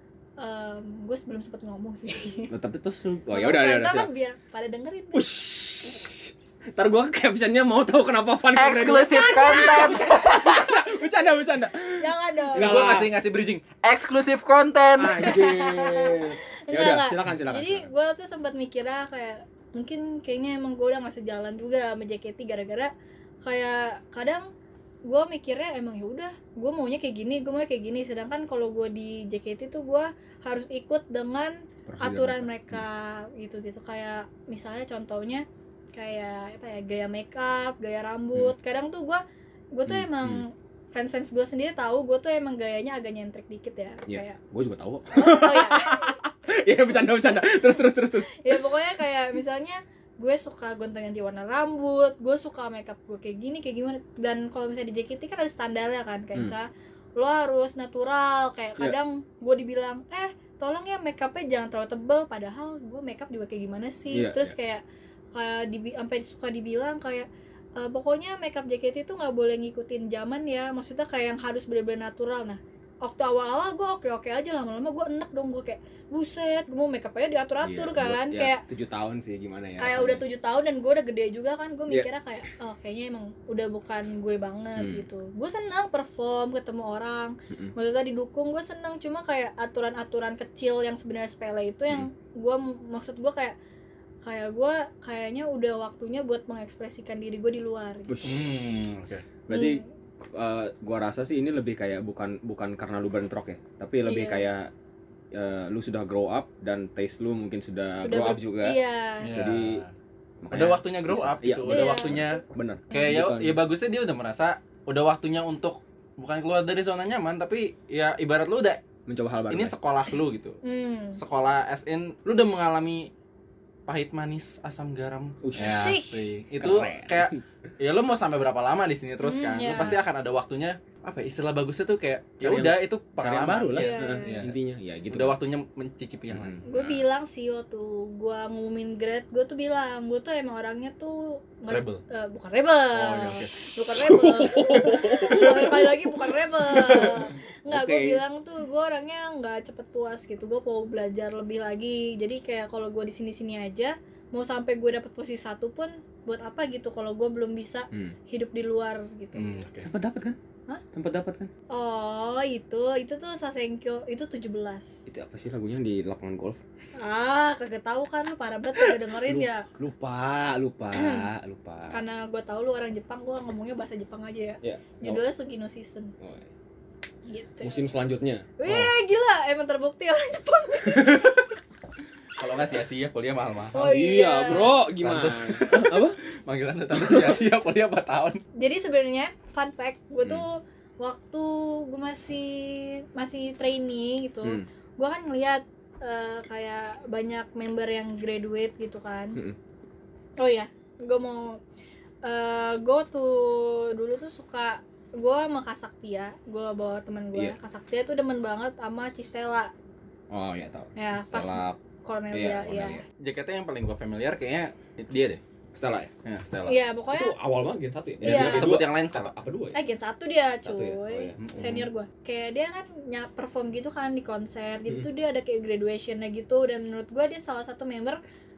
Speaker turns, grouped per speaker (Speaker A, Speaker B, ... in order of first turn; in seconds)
Speaker A: 0.4-2.5, 3.3-5.3, 9.1-10.2, 12.0-12.9, 15.2-22.9, 23.4-24.5, 25.1-44.4, 45.1-46.1, 48.4-64.8, 65.3-78.6, 79.8-93.5, 94.2-98.1, 99.5-99.8, 104.0-104.5, 108.0-109.3, 111.7-112.4, 120.6-121.2, 125.6-126.2, 129.2-130.0, 133.7-134.4, 136.7-159.6, 161.7-165.0, 167.0-169.7, 170.9-171.2, 171.9-176.1, 177.3-177.8, 178.6-181.3, 183.7-184.8, 188.6-199.4, 200.4-201.6, 202.2-209.7, 210.9-213.0, 216.7-217.3, 218.2-218.7, 219.7-228.2
Speaker B: 2.5-4.1, 5.1-13.1, 15.0-17.9, 31.9-32.8, 39.9-40.4, 44.1-48.6, 64.1-64.5, 77.6-80.2, 84.8-85.0, 98.1-98.5, 99.5-104.7, 105.3-108.8, 109.3-109.8, 110.4-113.6, 119.1-119.7, 125.4-125.9, 126.6-127.4, 132.4-135.4, 136.3-136.9, 143.9-148.2, 159.8-160.4, 160.9-161.5, 165.1-166.6, 168.8-172.0, 174.6-175.2, 176.2-176.5, 177.6-178.5, 183.8-186.2, 187.0-187.4, 210.3-211.8, 212.3-213.0, 215.7-216.1, 217.1-219.8, 220.6-221.5
Speaker C: 8.5-10.7, 12.6-15.4, 98.2-99.2, 109.2-109.9, 110.5-118.8, 119.5-120.6, 121.2-123.1, 123.9-134.5, 135.1-136.8, 141.7-142.0, 142.9-143.5, 159.3-159.9, 178.7-178.9, 182.4-183.9, 185.0-188.4, 213.2-215.4, 216.2-216.8, 218.2-219.3, 221.4-221.9